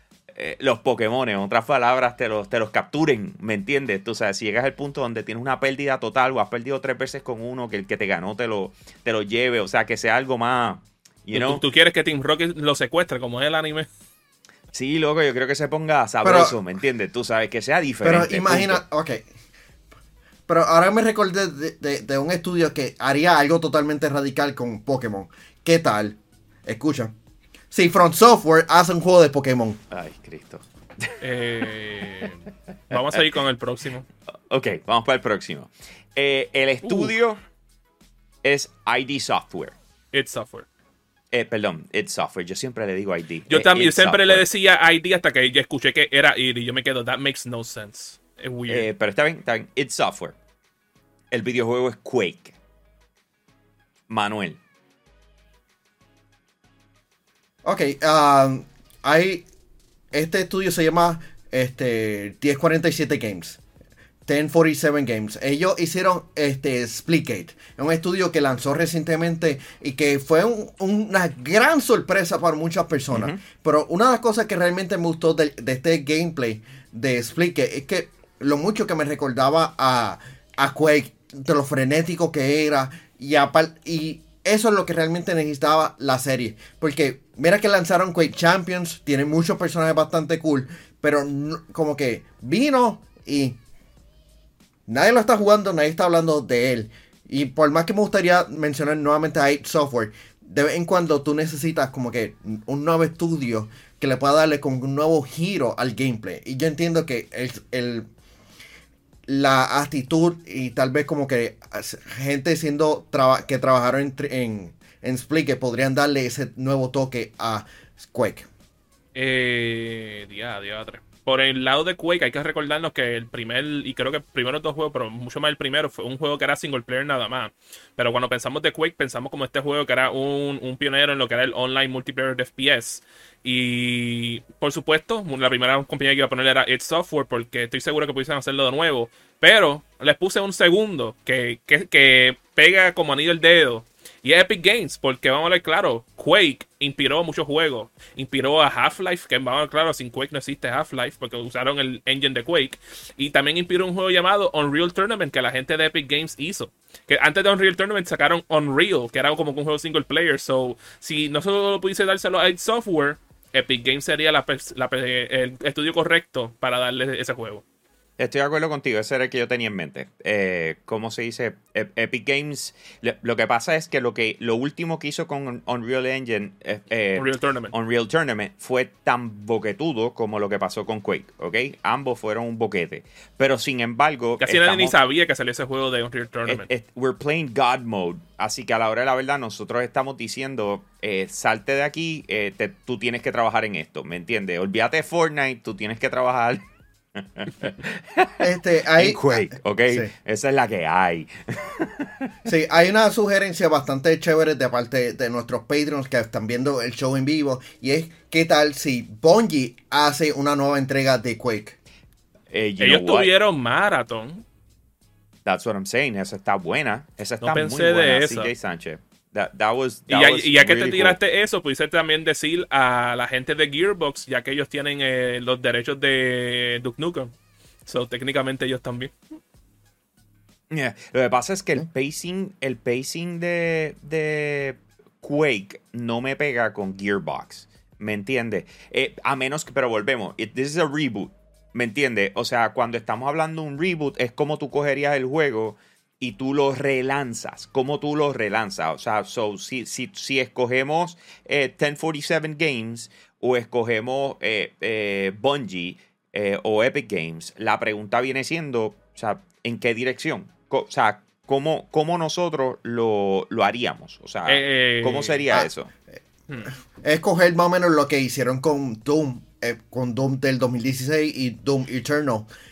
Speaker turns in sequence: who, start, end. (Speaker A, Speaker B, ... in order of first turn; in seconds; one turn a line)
Speaker A: 0.3-11.6
Speaker B: 11.3-13.9
Speaker A: 14.7-18.8
Speaker C: 16.2-16.6
Speaker C: 18.0-19.3
Speaker C: 20.5-27.1
Speaker C: 27.7-29.8
Speaker A: 29.9-31.2
Speaker B: 31.2-34.0
Speaker A: 34.5-37.4
Speaker B: 36.8-37.1
Speaker A: 38.4-39.8
Speaker B: 40.1-40.7
Speaker A: 41.3-44.4
Speaker B: 43.5-48.9
Speaker A: 48.7-50.3
Speaker A: 51.3-52.5
Speaker A: 54.1-54.6
Speaker C: 57.6-59.5
Speaker C: 60.1-63.6
Speaker C: 64.2-93.6
Speaker A: 73.1-73.4
Speaker C: 94.9-108.1
Speaker C: 109.3-118.5
Speaker B: 119.1-167.6
Speaker A: 168.2-184.9
Speaker B: 177.1-177.7
Speaker B: 184.4-186.7
Speaker A: 186.5-196.6
Speaker A: 197.1-202.3
Speaker C: 198.4-200.1
Speaker C: 202.4-211.8
Speaker A: 212.5-213.3
Speaker B: 212.8-214.4
Speaker A: 215.4-221.2
Speaker B: 217.4-218.5
Speaker B: 220.1-227.3
Speaker B: 227.8-229.1
Speaker A: 230.7-265.9
Speaker B: 264.5-265.4
Speaker C: 267.0-272.5